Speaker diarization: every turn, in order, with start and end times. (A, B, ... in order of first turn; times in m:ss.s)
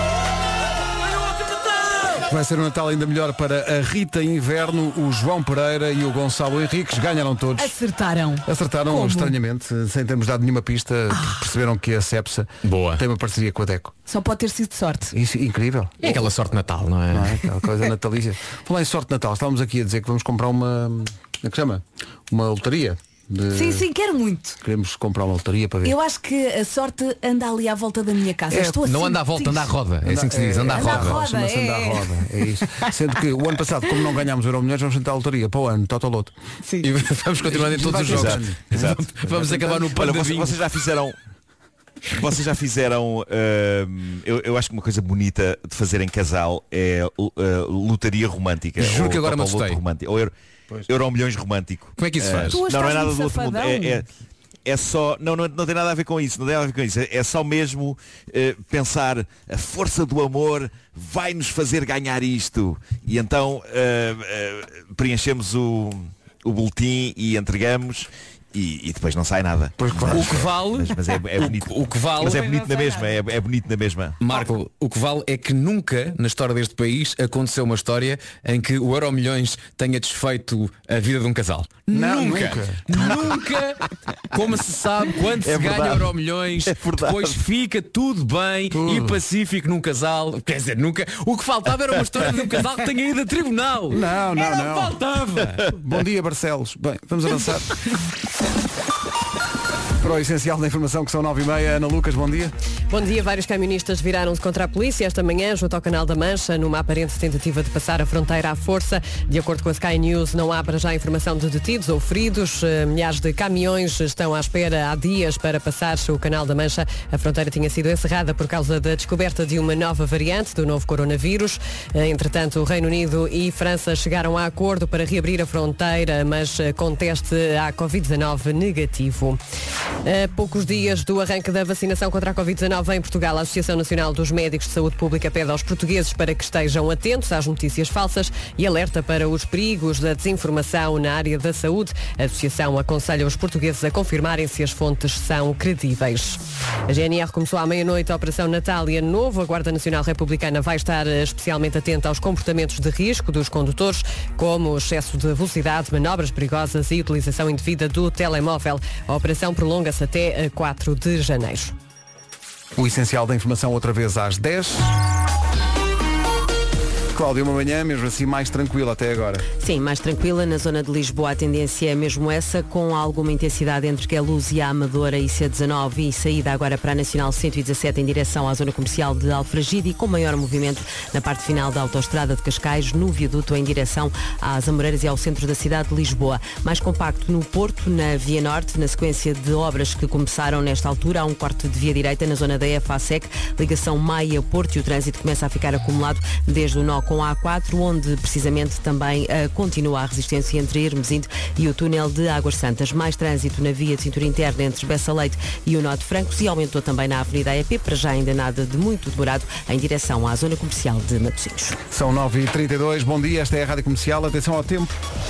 0:02.3-0:07.8 A
0:07.6-0:09.4 B
0:08.4-0:13.9 A
0:12.6-0:13.0 C
0:14.1-0:15.1 B
0:15.1-0:16.3 A
0:16.0-0:17.4 C
0:17.1-0:23.9 A
0:23.5-0:24.6 B
0:24.6-0:26.0 A
0:25.8-0:29.8 B
0:28.8-0:31.2 C
0:30.0-0:36.3 A
0:30.7-0:32.1 B
0:36.8-0:40.6 C
0:37.5-0:40.0 A
0:38.0-0:39.0 D
0:39.9-0:41.2 D
0:42.2-0:50.3 D
0:48.8-0:49.8 C
0:50.9-0:54.1 D
0:52.0-0:52.6 C
0:52.5-0:54.0 B
0:54.7-1:14.2 D
1:09.8-1:10.5 A
1:10.1-1:12.6 C
1:12.7-1:13.0 B
1:14.2-1:35.7 C
1:21.9-1:23.3 A
1:25.4-1:27.4 D
1:28.7-1:29.2 A
1:33.9-1:35.0 A
1:35.6-1:37.8 A
1:40.0-1:42.6 A
1:42.9-2:09.4 E
2:10.0-2:41.8 E
2:42.8-2:45.0 A
2:47.1-2:49.5 A
2:49.6-3:31.8 F
3:31.9-3:35.0 A